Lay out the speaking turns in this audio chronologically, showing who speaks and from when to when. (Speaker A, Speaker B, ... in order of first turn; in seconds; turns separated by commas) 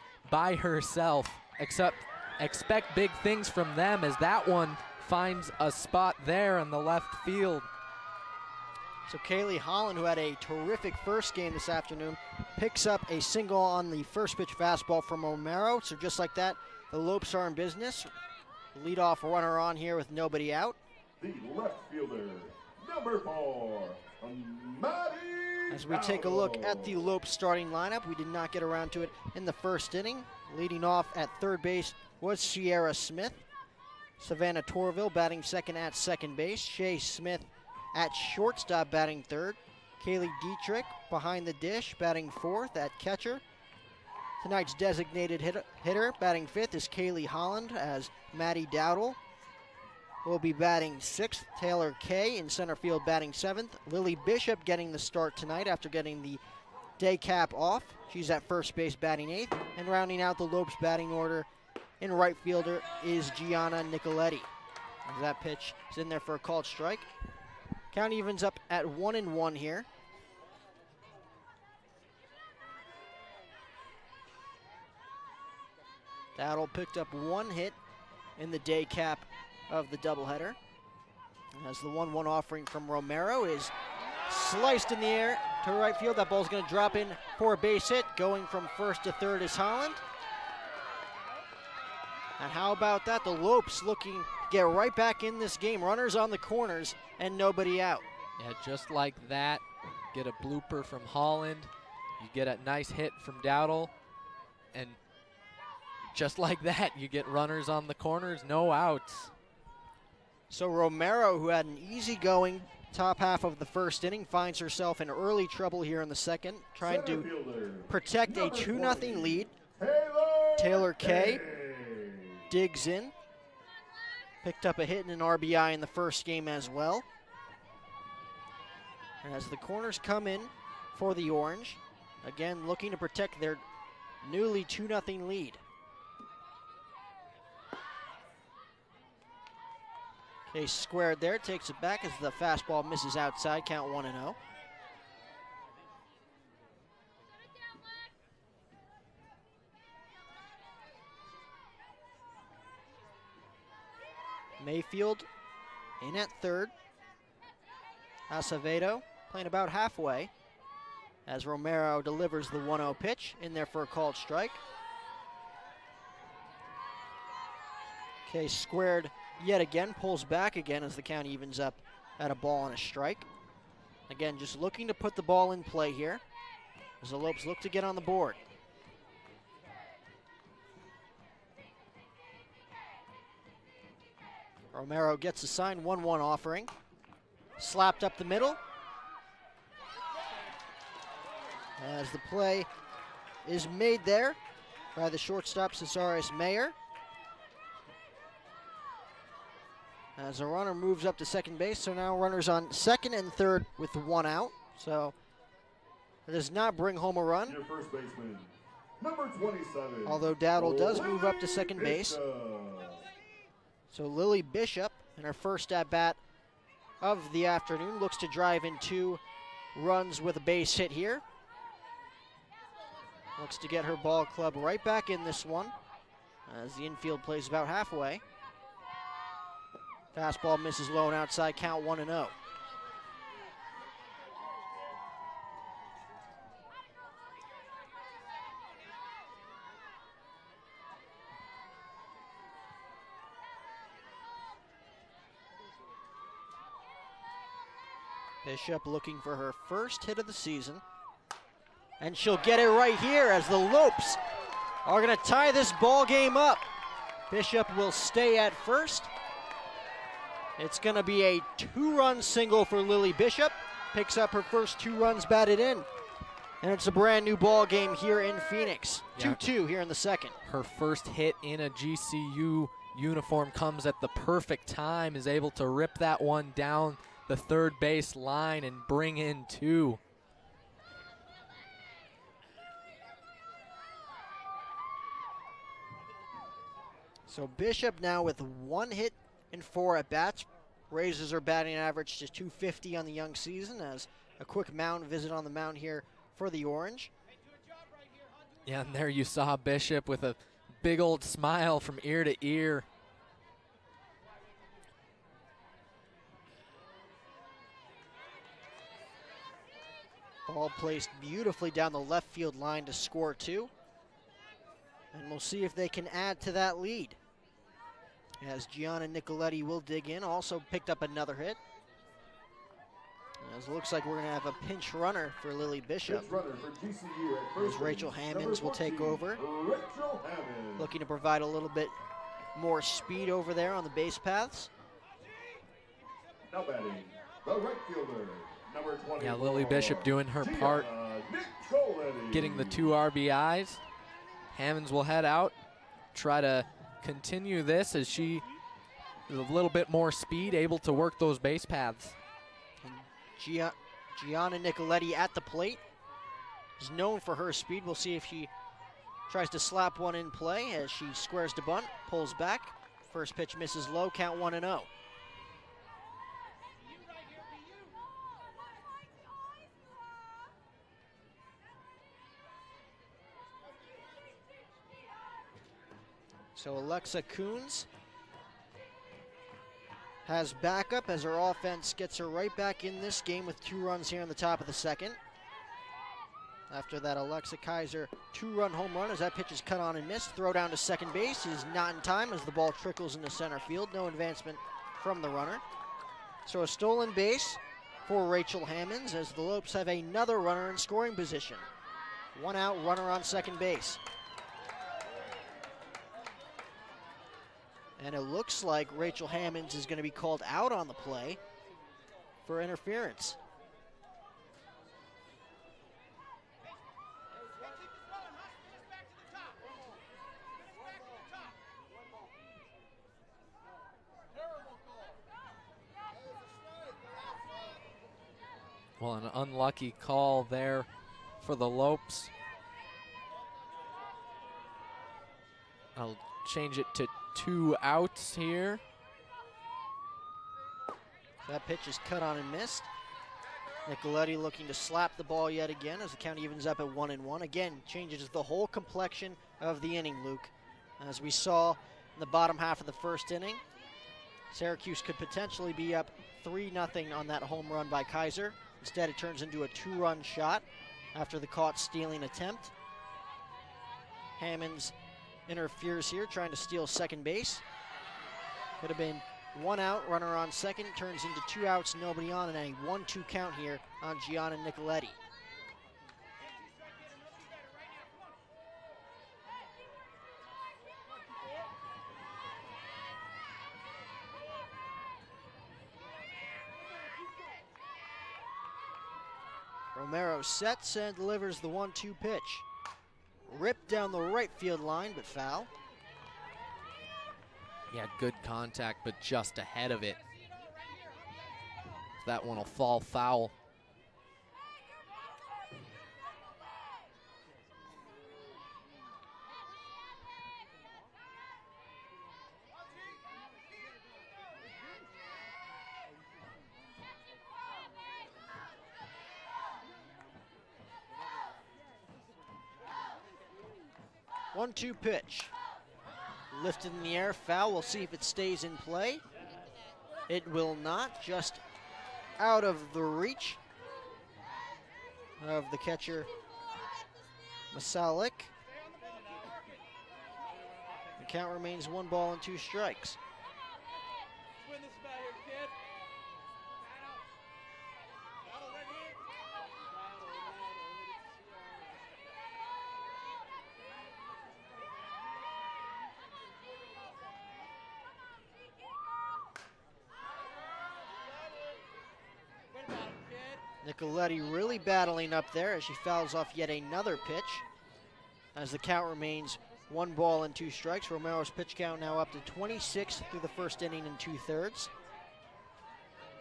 Speaker A: 0.3-7.7, Speaker B: 9.1-18.1, Speaker B: 18.7-20.8, Speaker C: 21.2-27.0, Speaker B: 25.7-33.5, Speaker B: 34.2-43.4, Speaker B: 44.4-49.2, Speaker B: 50.2-56.4, Speaker B: 57.0-61.5, Speaker B: 62.0-64.5, Speaker B: 65.1-67.1, Speaker B: 67.9-69.9, Speaker B: 76.4-77.8, Speaker B: 78.4-80.6, Speaker B: 81.5-83.7, Speaker B: 84.3-90.0, Speaker B: 92.4-98.1, Speaker A: 98.4-99.6, Speaker A: 100.1-103.9, Speaker A: 106.1-109.3, Speaker B: 110.5-117.3, Speaker C: 116.8-122.4, Speaker B: 117.9-119.5, Speaker B: 120.6-121.4, Speaker B: 122.5-123.1, Speaker B: 124.4-127.1, Speaker B: 129.2-133.6, Speaker B: 134.2-135.6, Speaker B: 140.5-144.4, Speaker B: 154.6-155.3, Speaker B: 156.0-156.7, Speaker B: 158.3-160.3, Speaker B: 161.3-164.6, Speaker B: 168.3-173.3, Speaker B: 174.1-176.2, Speaker B: 177.0-178.4, Speaker B: 184.7-186.7, Speaker B: 187.6-188.6, Speaker B: 191.8-192.7, Speaker B: 193.4-194.4, Speaker B: 194.9-196.8, Speaker B: 200.2-205.2, Speaker B: 206.3-207.6, Speaker C: 207.5-213.0, Speaker B: 210.1-212.2, Speaker B: 213.9-216.2, Speaker B: 217.0-219.2, Speaker B: 219.8-221.2, Speaker B: 223.4-225.8, Speaker B: 226.5-228.2, Speaker B: 230.1-232.3, Speaker B: 248.4-250.8, Speaker B: 252.0-254.2, Speaker B: 254.8-256.7, Speaker B: 257.3-259.1, Speaker B: 260.6-265.9, Speaker B: 266.6-270.4, Speaker A: 269.1-269.4, Speaker A: 270.4-280.0, Speaker B: 287.3-297.1, Speaker A: 298.6-302.9, Speaker B: 310.5-313.7, Speaker B: 315.1-317.2, Speaker B: 318.4-321.6, Speaker B: 323.4-326.3, Speaker C: 326.1-330.9, Speaker B: 327.6-329.4, Speaker B: 330.8-332.0, Speaker B: 332.6-334.7, Speaker C: 336.5-342.9, Speaker A: 339.2-340.9, Speaker A: 342.3-343.8, Speaker A: 344.5-345.6, Speaker A: 346.1-348.4, Speaker A: 349.3-352.2, Speaker B: 352.8-355.8, Speaker B: 356.8-358.5, Speaker B: 359.3-364.9, Speaker B: 376.6-377.9, Speaker B: 380.2-385.2, Speaker B: 386.7-395.6, Speaker B: 396.4-401.7, Speaker B: 402.3-404.0, Speaker B: 408.0-411.4, Speaker B: 412.4-413.4, Speaker A: 429.0-430.9, Speaker A: 431.4-432.3, Speaker A: 436.0-438.8, Speaker B: 441.4-442.9, Speaker B: 443.9-453.6, Speaker B: 454.5-462.7, Speaker B: 464.4-464.9, Speaker B: 465.5-467.6, Speaker B: 468.8-475.2, Speaker B: 489.9-492.7, Speaker B: 493.4-495.7, Speaker A: 497.9-500.2, Speaker A: 502.2-503.5, Speaker B: 524.5-525.5, Speaker B: 526.5-529.2, Speaker B: 530.3-531.6, Speaker B: 532.4-533.6, Speaker B: 535.4-536.3, Speaker B: 537.7-538.5, Speaker B: 541.2-543.2, Speaker B: 563.8-567.6, Speaker B: 568.5-574.9